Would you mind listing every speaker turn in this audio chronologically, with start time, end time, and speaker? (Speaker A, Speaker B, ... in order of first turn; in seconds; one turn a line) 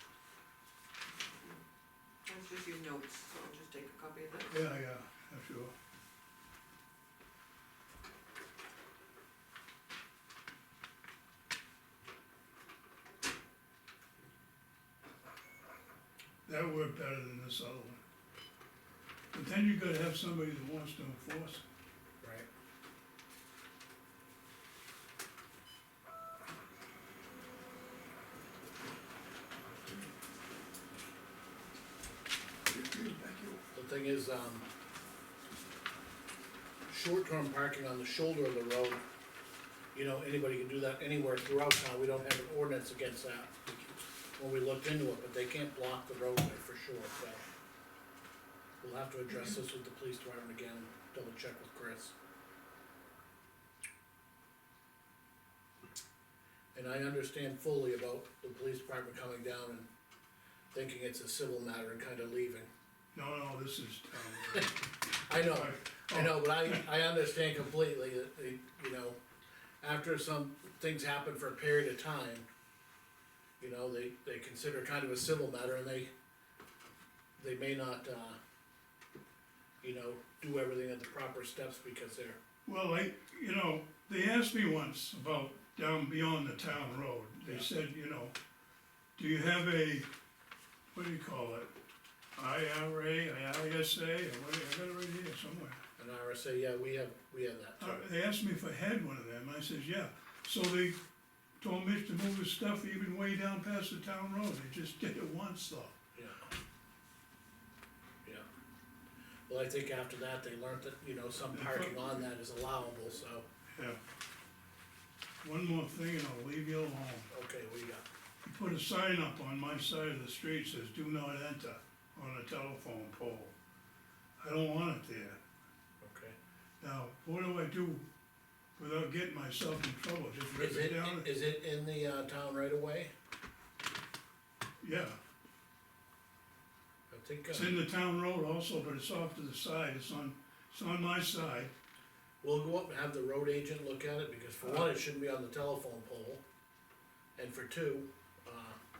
Speaker A: 2.2-4.6
Speaker B: 4.5-5.7
Speaker B: 16.4-18.0
Speaker B: 19.3-21.6
Speaker C: 22.2-22.5
Speaker B: 32.7-33.6
Speaker C: 33.7-34.7
Speaker C: 36.9-39.0
Speaker C: 39.9-43.8
Speaker C: 44.4-47.4
Speaker C: 48.8-52.1
Speaker C: 56.7-59.9
Speaker C: 60.7-62.7
Speaker B: 63.1-64.7
Speaker C: 64.5-69.2
Speaker B: 65.3-66.8
Speaker C: 69.8-72.5
Speaker C: 73.6-76.1
Speaker C: 77.4-78.4
Speaker C: 79.8-82.4
Speaker B: 82.7-88.3
Speaker B: 89.2-90.1
Speaker B: 90.9-91.7
Speaker B: 92.4-95.8
Speaker C: 96.0-98.0
Speaker B: 97.8-101.0
Speaker B: 101.6-106.0
Speaker C: 106.1-106.5
Speaker C: 109.5-113.4
Speaker B: 111.5-112.0
Speaker B: 113.7-114.0
Speaker B: 115.4-117.3
Speaker C: 117.3-118.0
Speaker B: 118.4-123.5
Speaker B: 124.4-125.4
Speaker C: 126.0-126.3
Speaker B: 126.8-128.0
Speaker B: 128.8-131.3
Speaker C: 130.6-133.1
Speaker B: 134.8-135.2
Speaker C: 137.1-137.7
Speaker B: 137.5-141.7
Speaker C: 142.4-146.4
Speaker B: 144.6-144.9
Speaker C: 147.4-148.8